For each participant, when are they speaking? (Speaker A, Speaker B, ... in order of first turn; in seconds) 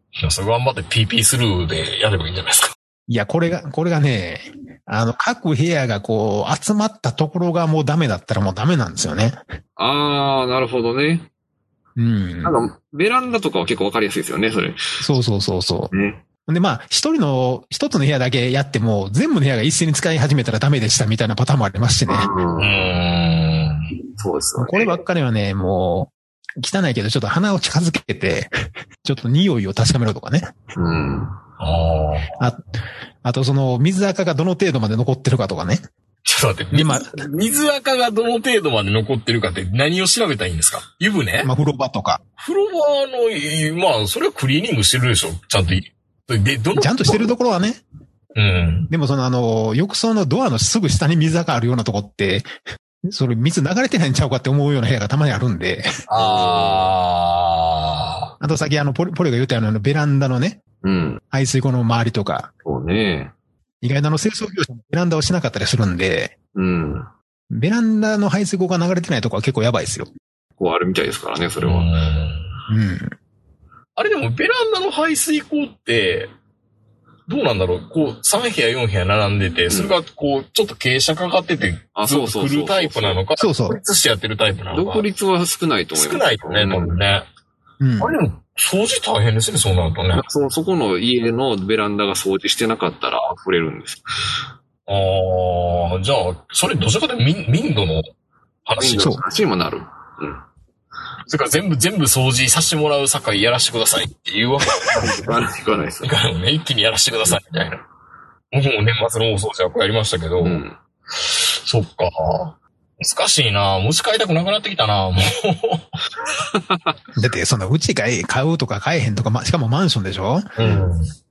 Speaker A: 0.2-2.8, 22.6-23.9, 31.6-32.4, 36.2-41.5, 42.4-47.4, 48.4-48.9, 56.1-58.3, 71.6-72.5, 74.0-76.3, 77.3-85.1, 86.0-87.3, 88.0-90.2, 94.9-98.1, 98.7-99.2, 101.3-105.4, 106.0-107.8, 108.5-110.6, 111.1-116.0, 120.6-121.1
Speaker B: 3.1-9.4, 12.0-12.6, 15.0-15.9, 16.5-22.3, 24.6-28.5, 29.0-30.5, 33.2-35.9, 36.7-37.2, 41.4-42.2, 46.8-47.8, 48.9-52.5, 53.1-55.9, 58.4-60.6, 61.3-62.5, 63.8-66.3, 67.5-70.1, 72.7-73.2, 83.4-83.8, 87.8-88.2, 117.2-120.5
Speaker C: 9.8-11.3, 12.4-15.0, 15.9-16.2, 22.1-23.0, 24.1-25.0, 30.8-31.4, 56.1-56.9, 60.8-61.2, 62.6-63.3, 66.5-67.1, 70.6-71.9, 82.0-83.2, 84.7-87.0, 90.1-94.0, 98.8-100.4, 104.8-106.2, 110.4-110.8, 116.3-116.9, 120.6-120.9